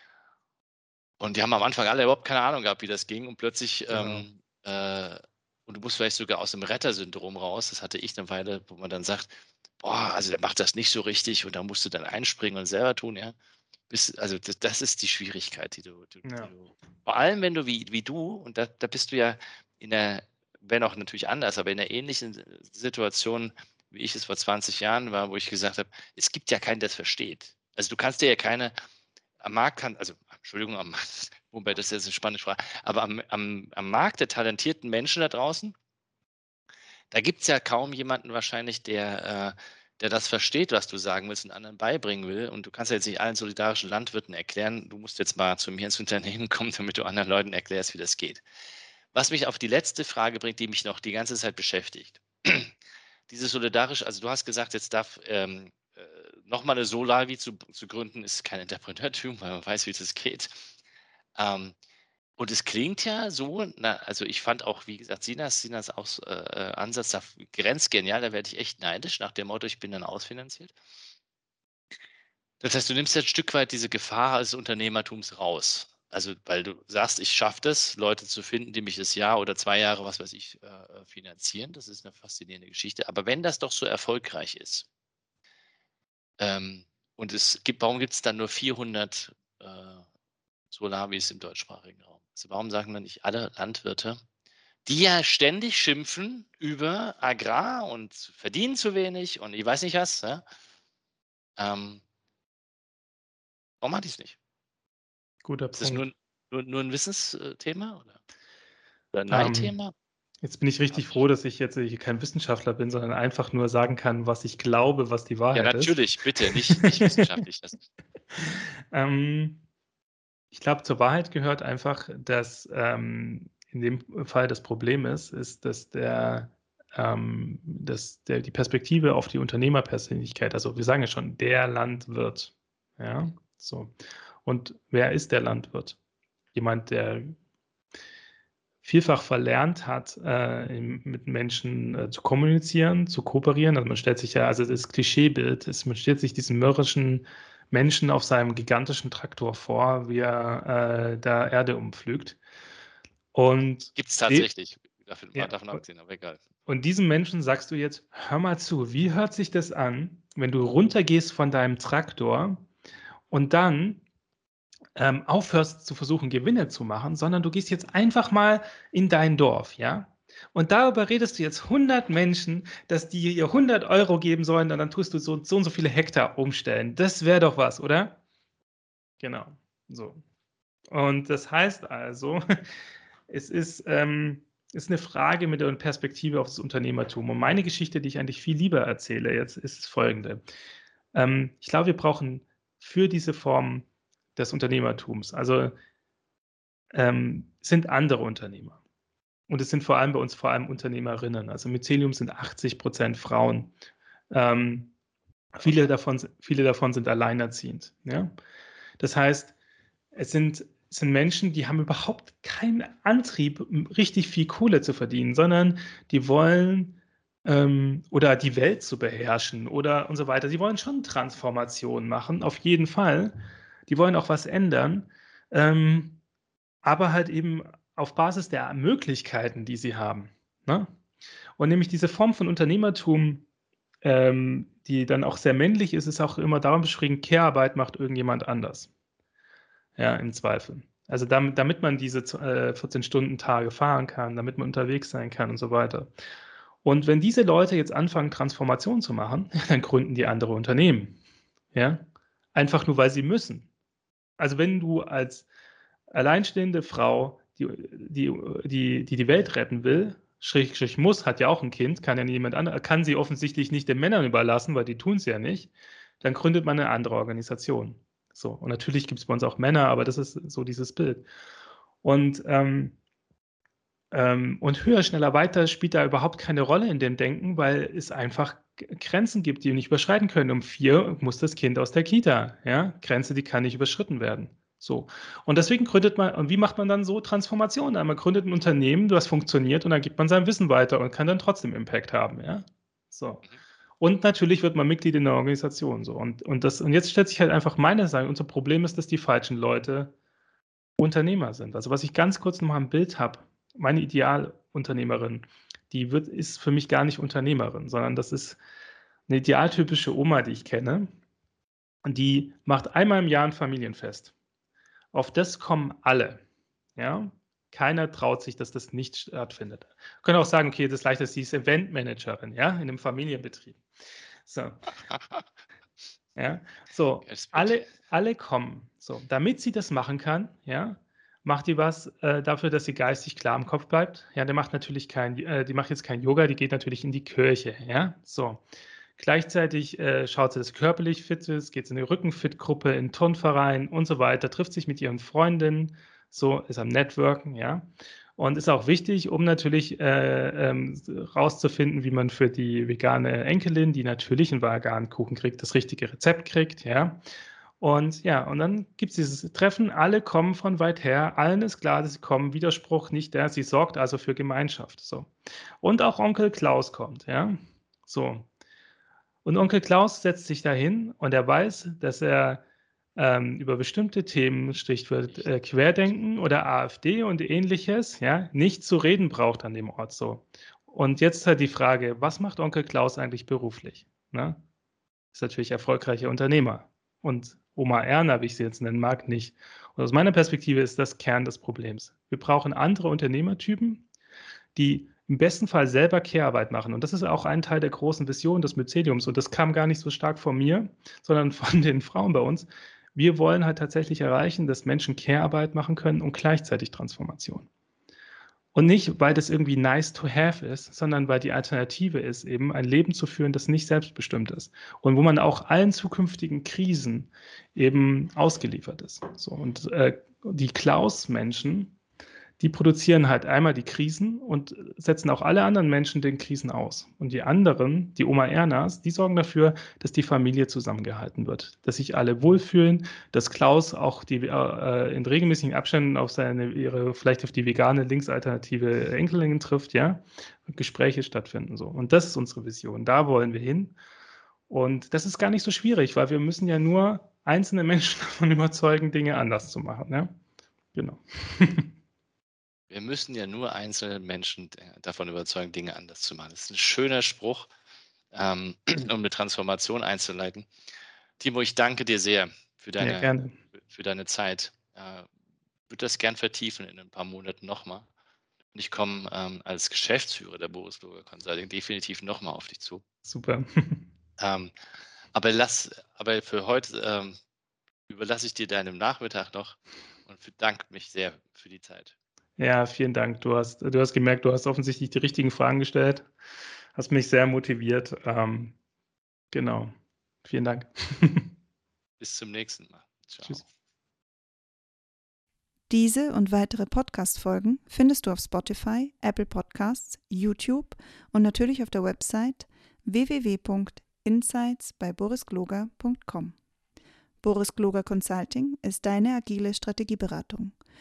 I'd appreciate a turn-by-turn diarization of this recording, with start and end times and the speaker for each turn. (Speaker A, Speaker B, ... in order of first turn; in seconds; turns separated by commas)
Speaker A: 1.2-13.3, Speaker B: 3.9-4.3, Speaker A: 13.9-28.7, Speaker B: 16.2-16.5, Speaker A: 29.4-35.8, Speaker A: 37.1-48.4, Speaker A: 49.1-52.7, Speaker A: 53.3-60.7, Speaker A: 61.4-61.8, Speaker A: 62.4-70.8, Speaker A: 72.6-84.9, Speaker A: 86.4-90.0, Speaker A: 90.7-94.2, Speaker A: 94.9-100.4, Speaker A: 101.6-102.0, Speaker A: 103.8-104.4, Speaker B: 105.4-106.1, Speaker A: 105.8-108.2, Speaker A: 109.1-109.9, Speaker B: 109.3-109.8, Speaker B: 110.4-116.0, Speaker A: 110.9-111.2, Speaker A: 115.5-117.8, Speaker B: 116.6-117.2, Speaker B: 118.4-119.6, Speaker B: 120.5-133.9, Speaker B: 134.4-136.0, Speaker B: 136.5-137.4, Speaker B: 138.8-152.4, Speaker B: 153.3-154.5, Speaker A: 153.9-156.4, Speaker B: 155.3-155.8, Speaker B: 156.7-162.7, Speaker B: 163.3-164.0, Speaker B: 165.0-178.2, Speaker B: 179.2-180.2, Speaker B: 180.9-182.4, Speaker B: 183.3-190.4, Speaker B: 191.1-195.8, Speaker B: 196.9-198.8, Speaker B: 199.5-203.7, Speaker B: 204.3-204.9, Speaker B: 205.6-208.3, Speaker B: 209.0-209.5, Speaker B: 210.1-223.3, Speaker B: 223.9-226.2, Speaker B: 226.8-230.9, Speaker B: 231.6-233.5, Speaker B: 234.0-238.9, Speaker B: 240.0-246.1, Speaker B: 246.8-251.2, Speaker B: 251.7-253.7, Speaker B: 254.4-255.5, Speaker B: 256.1-265.7, Speaker B: 266.2-271.3, Speaker B: 272.0-273.0, Speaker B: 274.1-293.4, Speaker B: 294.0-300.1, Speaker B: 301.0-308.6, Speaker B: 309.3-311.1, Speaker B: 312.1-314.3, Speaker B: 315.1-316.4, Speaker B: 317.0-323.8, Speaker B: 324.5-324.8, Speaker A: 325.1-325.4, Speaker B: 326.4-338.6, Speaker A: 327.3-327.9, Speaker B: 339.2-357.2, Speaker B: 357.8-368.5, Speaker B: 369.4-372.6, Speaker B: 373.2-384.6, Speaker B: 385.3-394.1, Speaker B: 394.8-407.7, Speaker B: 408.7-421.9, Speaker B: 422.6-444.0, Speaker B: 444.7-450.4, Speaker B: 450.9-451.9, Speaker A: 452.9-457.7, Speaker A: 458.3-460.7, Speaker A: 461.4-465.3, Speaker B: 463.0-463.6, Speaker A: 465.9-468.1, Speaker A: 468.7-473.0, Speaker B: 473.2-474.1, Speaker A: 474.4-474.7, Speaker A: 475.3-477.4, Speaker A: 478.1-482.1, Speaker B: 482.6-486.3, Speaker B: 486.9-488.8, Speaker B: 489.5-489.9, Speaker B: 490.4-491.5, Speaker A: 492.2-493.6, Speaker C: 495.9-506.6, Speaker C: 507.4-510.8